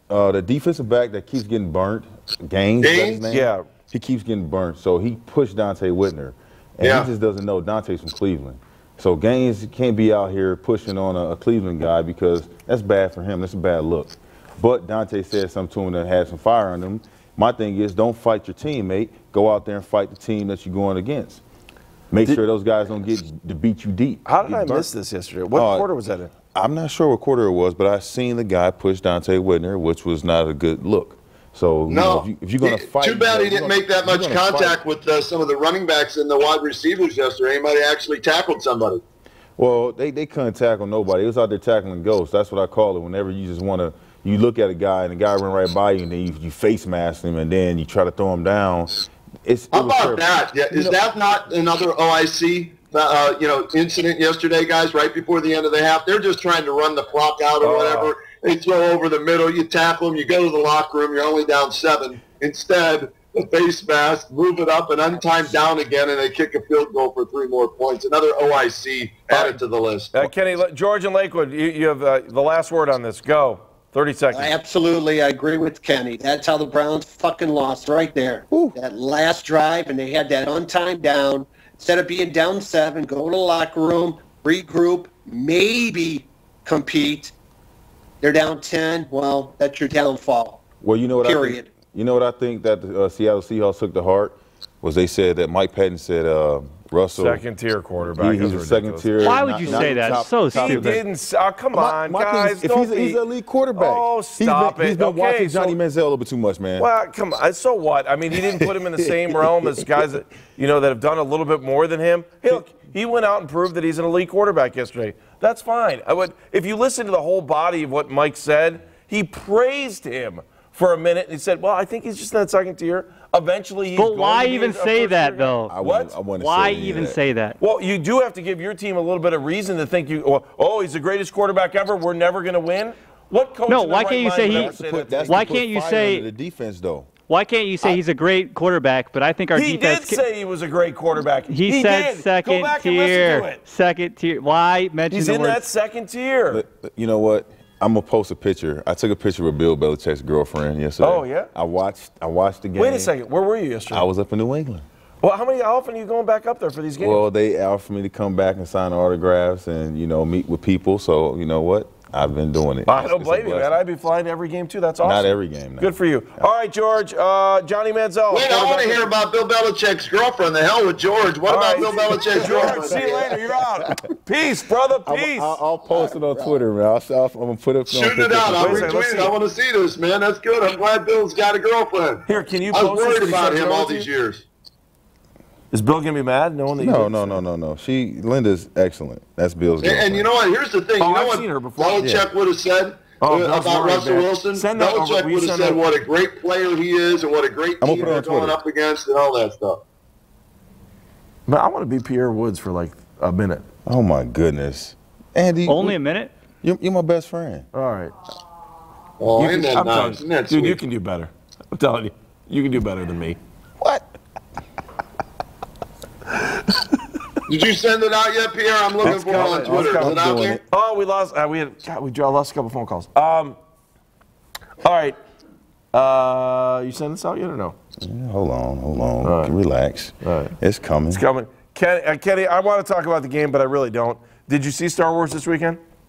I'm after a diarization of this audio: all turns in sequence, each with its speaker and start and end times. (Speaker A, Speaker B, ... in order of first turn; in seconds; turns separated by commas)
Speaker A: 0.1-21.4, Speaker B: 2.8-3.2, Speaker C: 3.3-3.7, Speaker B: 6.8-7.1, Speaker A: 22.1-24.9, Speaker C: 24.3-26.3, Speaker A: 25.5-25.9, Speaker A: 26.5-34.8, Speaker B: 31.9-39.0, Speaker A: 39.6-51.0, Speaker B: 49.7-70.2, Speaker C: 57.6-58.1, Speaker C: 69.3-69.6, Speaker C: 70.1-74.5, Speaker D: 74.3-87.3, Speaker A: 78.5-78.8, Speaker D: 88.2-90.6, Speaker A: 90.8-97.4, Speaker D: 91.2-91.7, Speaker C: 97.2-103.2, Speaker A: 98.2-101.0, Speaker E: 99.2-101.0, Speaker A: 101.7-106.9, Speaker C: 103.8-105.8, Speaker C: 106.8-126.2, Speaker A: 108.3-110.1, Speaker E: 124.0-125.7, Speaker A: 125.7-127.2, Speaker E: 126.4-127.6, Speaker C: 127.6-135.4, Speaker E: 133.7-134.8, Speaker A: 134.4-137.1, Speaker E: 135.3-136.3, Speaker E: 137.3-140.2, Speaker C: 139.5-143.6, Speaker E: 141.5-145.6, Speaker C: 145.1-146.6, Speaker A: 146.5-153.1, Speaker C: 151.0-151.5, Speaker C: 152.8-154.1, Speaker A: 153.9-154.9, Speaker C: 155.2-157.3, Speaker A: 157.0-163.8, Speaker C: 162.9-169.1, Speaker A: 165.0-166.5, Speaker B: 168.3-173.3, Speaker C: 171.5-175.6, Speaker A: 171.8-173.9, Speaker A: 175.1-178.9, Speaker B: 176.0-176.5, Speaker B: 177.9-184.4, Speaker C: 178.5-179.3, Speaker C: 182.3-184.1, Speaker C: 185.7-187.4, Speaker A: 186.8-190.3, Speaker B: 189.8-199.8, Speaker C: 191.0-192.2, Speaker A: 192.0-192.2, Speaker C: 193.2-195.8, Speaker A: 197.8-198.6, Speaker C: 201.5-203.7, Speaker A: 203.9-206.0, Speaker E: 205.7-206.3, Speaker A: 206.6-207.7, Speaker C: 207.7-208.1, Speaker B: 209.2-210.8, Speaker C: 209.4-213.4, Speaker A: 213.8-214.1, Speaker B: 217.5-220.6, Speaker A: 219.0-220.6, Speaker C: 219.0-220.2, Speaker C: 220.7-223.6, Speaker C: 224.8-225.2, Speaker C: 225.9-227.8, Speaker A: 228.0-231.2, Speaker C: 229.2-229.5, Speaker C: 230.2-230.5, Speaker C: 231.1-235.8